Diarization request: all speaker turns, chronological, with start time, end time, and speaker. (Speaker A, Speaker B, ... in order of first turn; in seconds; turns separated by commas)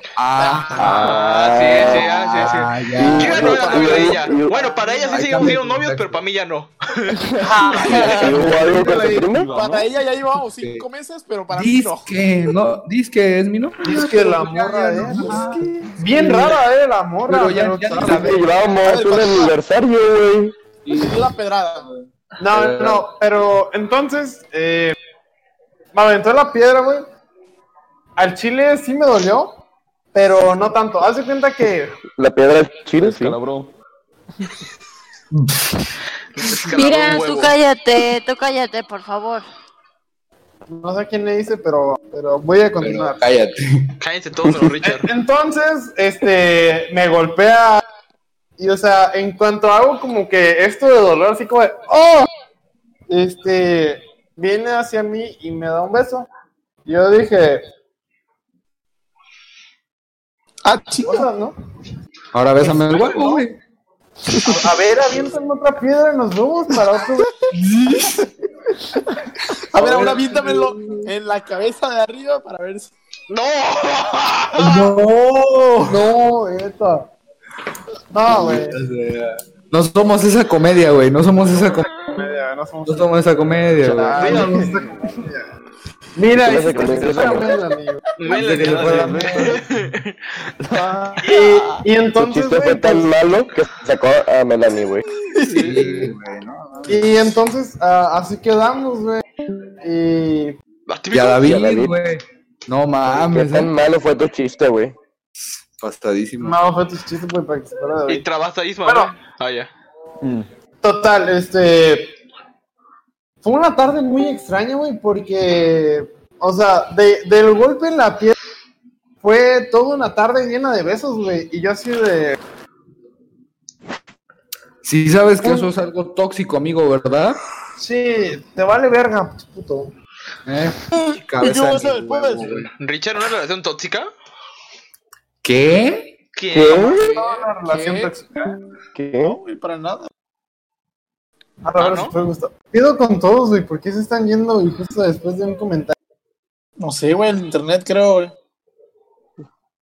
Speaker A: 0.2-1.1, Speaker B: 0.8-7.2, Speaker C: 0.9-2.2, Speaker A: 1.8-3.9, Speaker C: 2.9-4.7, Speaker A: 5.1-6.2, Speaker D: 7.3-9.9, Speaker E: 7.4-9.2, Speaker F: 7.8-12.1, Speaker C: 7.9-9.5, Speaker A: 10.6-10.9, Speaker A: 11.5-16.6, Speaker E: 13.8-15.4, Speaker D: 15.0-16.4, Speaker E: 16.0-18.4, Speaker A: 17.3-18.6, Speaker C: 18.1-20.6, Speaker F: 18.6-19.5, Speaker A: 20.9-23.1, Speaker F: 20.9-21.9, Speaker E: 22.4-25.0, Speaker E: 25.9-27.1, Speaker E: 28.2-29.6, Speaker E: 30.1-32.0, Speaker C: 32.1-33.4, Speaker D: 33.0-33.7, Speaker B: 36.4-37.5, Speaker G: 36.7-39.5, Speaker E: 40.7-43.2, Speaker A: 42.8-43.9, Speaker B: 44.0-45.1, Speaker E: 44.8-47.8, Speaker E: 48.6-52.3, Speaker E: 53.1-56.3, Speaker E: 56.9-57.6, Speaker F: 60.6-61.3, Speaker E: 61.0-61.6, Speaker A: 62.3-63.6, Speaker E: 62.7-63.4, Speaker E: 64.5-67.3, Speaker A: 67.5-68.2, Speaker F: 69.7-72.9, Speaker A: 69.8-70.7, Speaker B: 73.3-74.9, Speaker A: 74.6-76.0, Speaker E: 75.8-77.1, Speaker E: 78.1-78.8, Speaker A: 78.3-81.9, Speaker E: 82.0-83.1, Speaker A: 82.9-84.6, Speaker D: 83.9-85.2, Speaker E: 84.1-85.5, Speaker B: 84.2-84.7, Speaker E: 86.2-88.0, Speaker C: 86.3-87.5, Speaker D: 86.9-87.3, Speaker B: 88.2-90.1, Speaker A: 88.3-89.3, Speaker D: 88.5-89.6, Speaker E: 88.6-89.5, Speaker D: 90.6-91.8, Speaker E: 91.2-93.1, Speaker C: 92.2-95.0, Speaker F: 95.2-96.1, Speaker A: 95.6-97.4, Speaker E: 96.9-99.2, Speaker E: 99.8-100.6, Speaker B: 100.9-101.5, Speaker A: 101.1-103.7, Speaker C: 101.4-102.0, Speaker C: 103.0-105.0, Speaker A: 105.8-106.6, Speaker E: 106.4-108.2, Speaker B: 108.1-109.7, Speaker E: 108.8-109.1, Speaker D: 110.2-110.5, Speaker E: 110.8-112.2, Speaker E: 113.4-118.3, Speaker E: 119.2-122.4, Speaker A: 124.8-127.4, Speaker E: 125.4-125.7, Speaker E: 127.8-129.9, Speaker A: 130.5-132.7, Speaker F: 130.9-132.7, Speaker B: 132.8-134.1, Speaker A: 135.4-136.1, Speaker B: 136.3-137.4, Speaker C: 136.5-137.0, Speaker E: 136.8-138.5, Speaker F: 137.7-138.1, Speaker C: 138.9-139.4, Speaker F: 139.2-140.1, Speaker E: 141.6-145.9, Speaker B: 141.8-142.1, Speaker F: 146.8-148.3